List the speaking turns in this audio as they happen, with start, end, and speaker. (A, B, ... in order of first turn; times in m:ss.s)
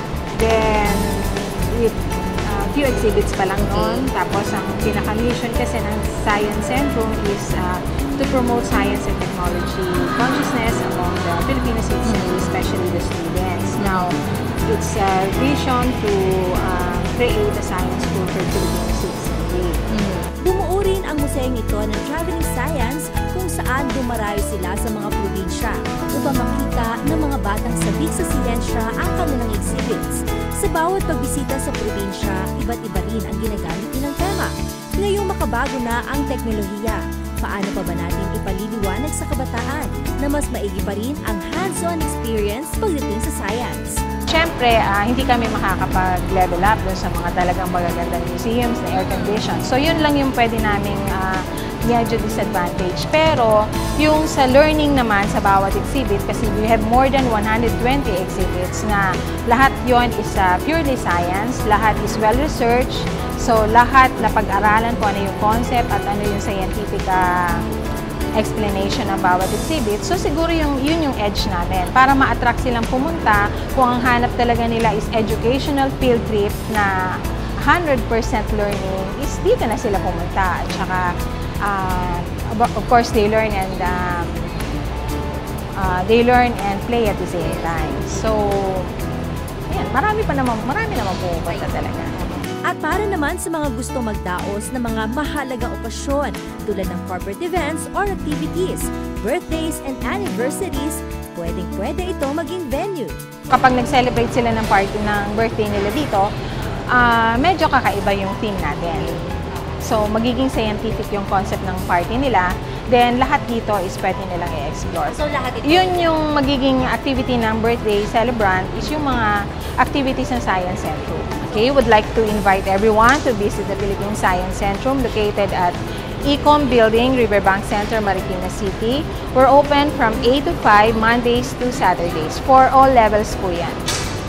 0:00.4-0:19.8 A
0:03.7-0:04.1 B
0:12.0-0:12.5 B
0:13.8-0:14.1 B
0:19.9-0:44.0 B
0:44.3-1:07.6 A
0:49.0-0:49.5 B
1:08.4-1:21.1 A
1:21.6-1:24.5 A
1:25.8-1:28.9 A
1:29.7-1:32.3 A
1:32.7-1:43.2 B
1:43.5-1:46.3 A
1:46.9-1:49.2 A
1:49.8-2:13.8 A
1:55.1-1:56.1 B